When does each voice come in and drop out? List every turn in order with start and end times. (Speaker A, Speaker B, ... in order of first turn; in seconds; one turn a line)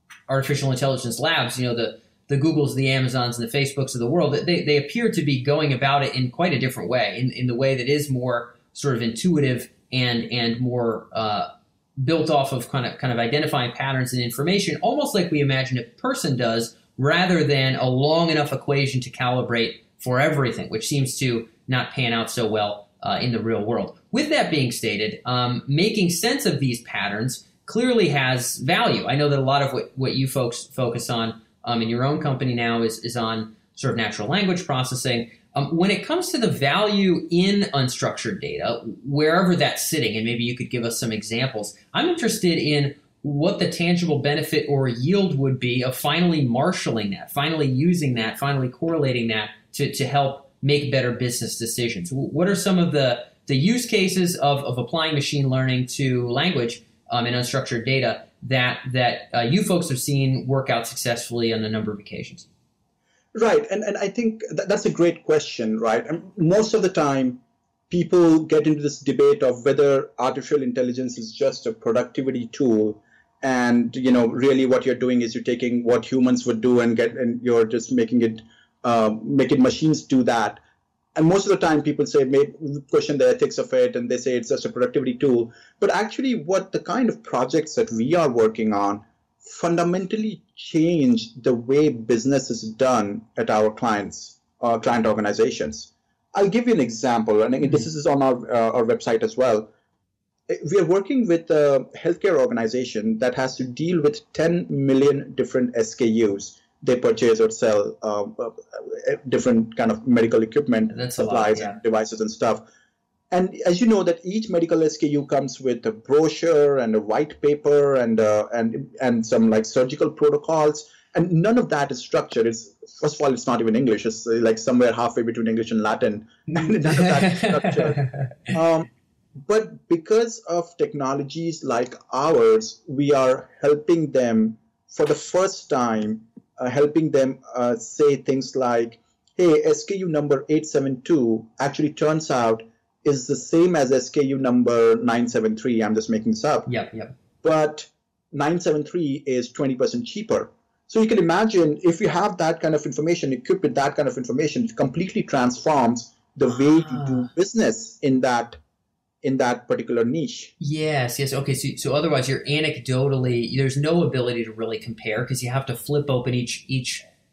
Speaker A: 0.3-62.5
Speaker B: 63.3-80.6
Speaker B: 81.1-99.7
Speaker B: 100.5-112.7
Speaker A: 110.9-111.8
Speaker B: 113.3-128.9
Speaker A: 126.5-128.3
Speaker B: 129.4-146.7
Speaker A: 146.7-147.1
Speaker B: 147.4-158.6
Speaker A: 156.8-157.3
Speaker B: 159.2-160.5
Speaker A: 160.6-167.0